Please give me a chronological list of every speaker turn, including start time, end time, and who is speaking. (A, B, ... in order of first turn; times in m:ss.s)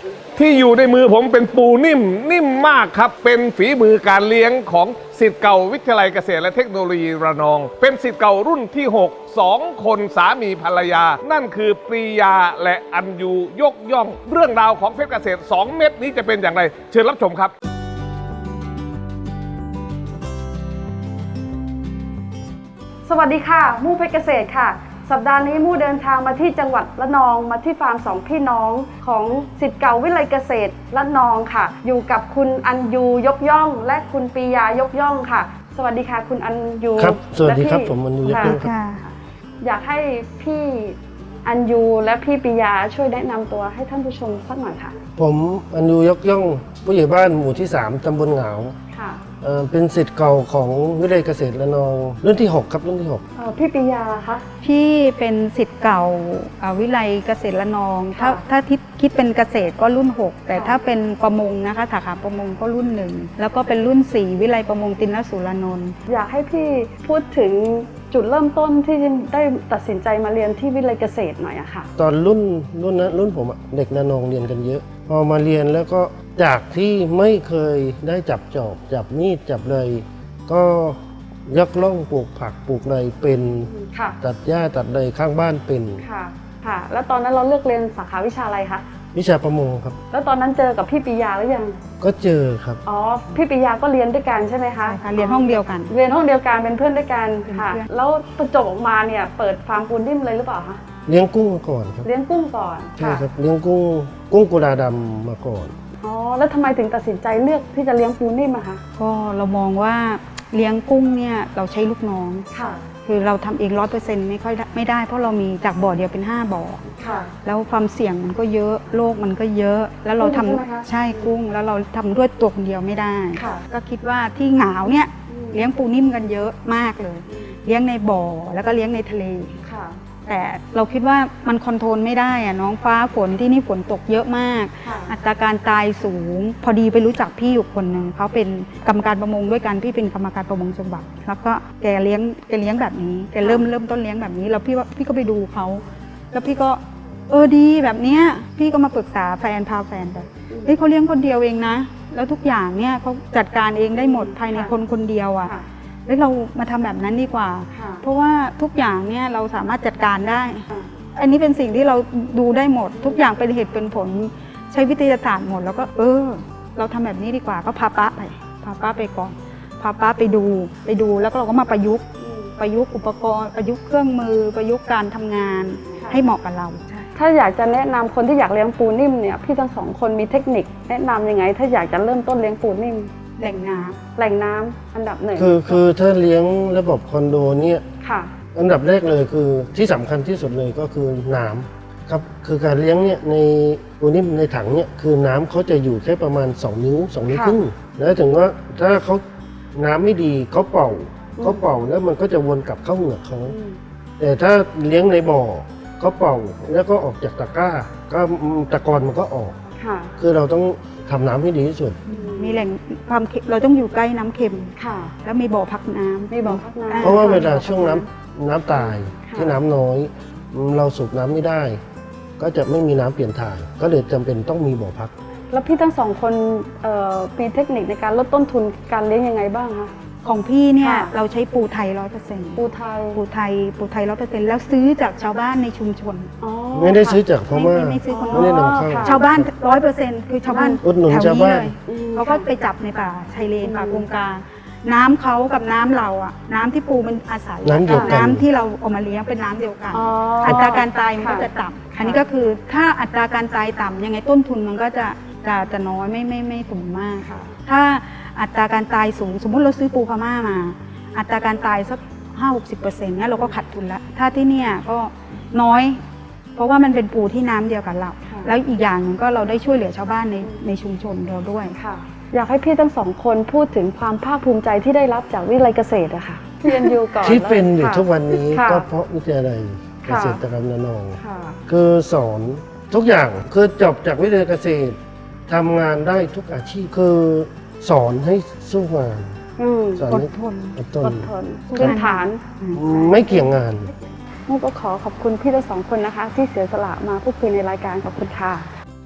0:00.4-0:17.5 A
0:23.0-0:45.0 B
0:37.0-0:38.7 C
0:38.2-0:39.0 D
0:45.1-0:48.8 C
0:48.9-0:49.2 B
0:49.4-0:53.2 C
0:53.4-0:54.4 B
0:54.6-1:06.0 D
0:58.1-0:58.4 B
1:00.5-1:00.8 B
1:06.1-1:11.9 B
1:12.0-1:26.0 C
1:23.7-1:24.2 B
1:26.0-1:28.8 B
1:29.1-1:30.0 C
1:30.1-1:31.8 B
1:32.0-1:32.8 C
1:32.8-1:40.8 B
1:34.8-1:35.9 D
1:37.5-1:37.9 D
1:41.1-1:42.1 C
1:42.0-1:43.2 B
1:43.0-1:45.7 C
1:46.0-1:48.8 B
1:49.0-1:52.5 D
1:52.5-1:52.8 B
1:53.0-1:56.8 D
1:57.0-1:57.3 B
1:57.4-2:09.6 D
2:00.2-2:01.3 B
2:03.4-2:03.6 B
2:05.3-2:05.6 B
2:07.3-2:07.6 B
2:09.6-2:10.0 B
2:10.2-2:35.5 D
2:14.8-2:15.1 B
2:30.5-2:30.8 B
2:34.0-2:34.8 B
2:36.1-2:57.1 D
2:37.7-2:38.0 B
2:43.0-2:43.2 B
2:52.2-2:52.5 B
2:55.9-2:56.2 B
2:57.1-3:03.1 B
3:03.4-3:04.0 D
3:04.2-3:05.9 B
3:05.4-3:07.8 C
3:08.0-3:08.3 B
3:08.5-3:19.2 C
3:17.3-3:17.6 B
3:19.7-3:23.6 C
3:21.4-3:21.7 B
3:23.4-3:23.8 B
3:24.2-3:29.6 C
3:29.8-3:30.1 B
3:30.2-3:32.0 C
3:32.1-3:32.6 B
3:32.1-3:37.8 D
3:34.8-3:35.1 B
3:36.3-3:38.0 B
3:37.0-3:41.8 C
3:38.7-3:39.6 B
3:42.4-3:45.1 C
3:45.5-3:49.9 B
3:50.2-3:52.6 D
3:50.8-3:51.1 B
3:52.6-3:53.2 B
3:53.1-3:56.3 D
3:56.4-3:59.4 B
3:56.7-3:59.4 C
3:57.5-4:26.0 D
4:00.5-4:00.8 B
4:00.8-4:01.7 C
4:01.8-4:02.4 B
4:03.6-4:04.1 B
4:07.6-4:08.4 C
4:07.9-4:08.2 B
4:09.9-4:12.2 B
4:17.2-4:17.5 B
4:26.6-4:31.8 D
4:28.2-4:28.5 B
4:31.8-4:38.9 B
4:37.2-4:49.4 C
4:40.0-4:40.4 B
4:41.2-4:41.6 B
4:49.6-4:50.1 B
4:50.0-4:52.0 C
4:50.1-4:50.8 D
4:51.0-4:53.5 B
4:51.7-4:52.8 D
4:52.7-4:53.9 C
4:54.5-4:58.7 B